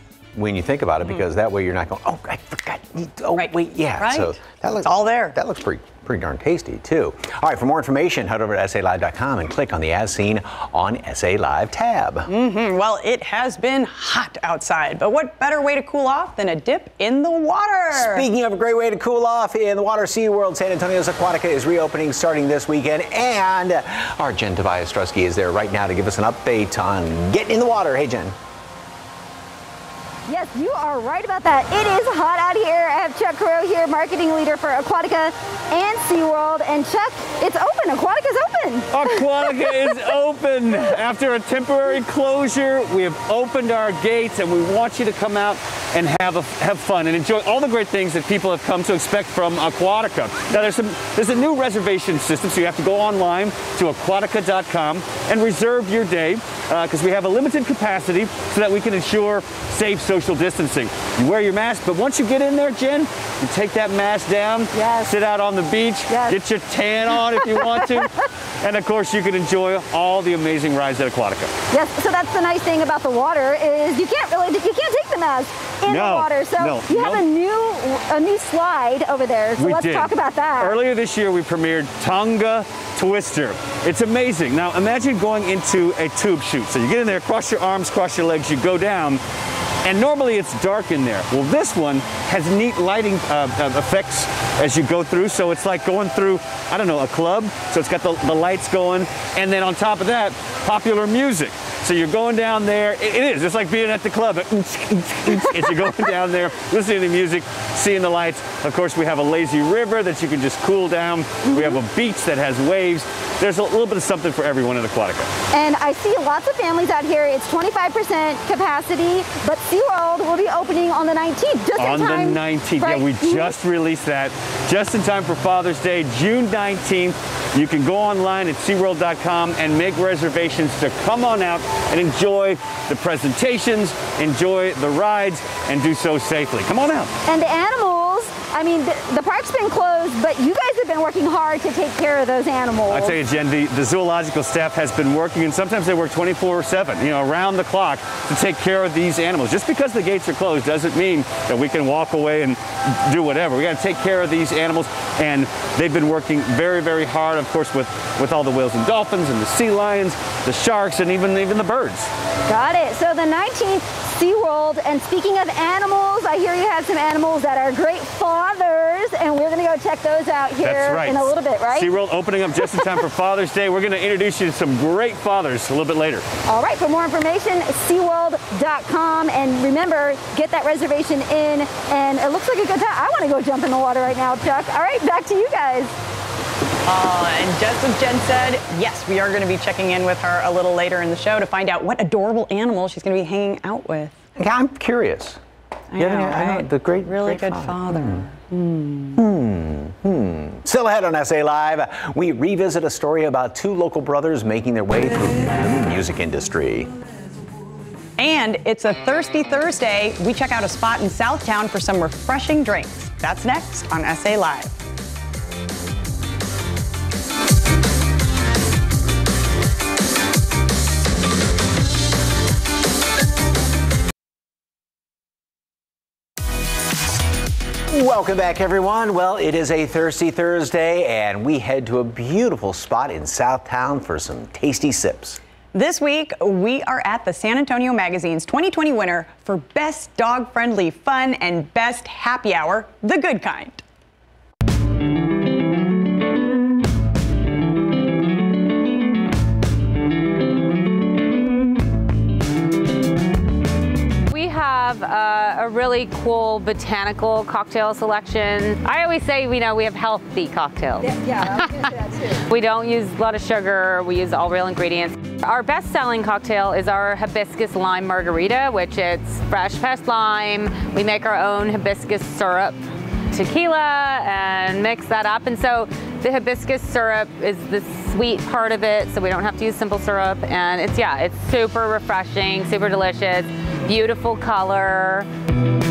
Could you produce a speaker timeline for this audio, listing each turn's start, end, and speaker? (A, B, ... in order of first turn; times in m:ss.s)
0:00.3-0:12.3 A
0:03.3-0:05.4 B
0:12.3-0:18.3 B
0:17.9-0:28.3 A
0:30.3-0:40.1 C
0:38.9-1:11.5 D
1:04.7-1:05.1 C
1:06.1-1:06.4 C
1:07.1-1:08.1 C
1:11.7-1:20.8 C
1:15.8-1:17.2 D
1:19.6-1:29.2 D
1:29.8-1:55.3 D
1:45.6-1:46.0 C
1:51.5-1:51.8 C
1:55.5-2:03.6 C
2:01.8-2:17.1 D
2:17.2-2:23.2 C
2:22.9-2:42.1 D
2:42.5-2:51.9 C
2:50.6-2:56.2 D
2:52.6-2:53.1 C
2:56.5-3:06.0 C
3:06.8-3:14.2 B
3:14.4-3:15.4 A
3:15.9-3:19.2 B
3:16.0-3:18.3 A
3:19.2-3:26.9 A
3:28.2-3:34.8 B
3:47.9-3:55.4 A
3:55.7-4:03.8 B
4:14.3-4:21.7 E
4:21.0-4:22.4 C
4:22.5-4:32.8 E
4:33.3-4:45.3 E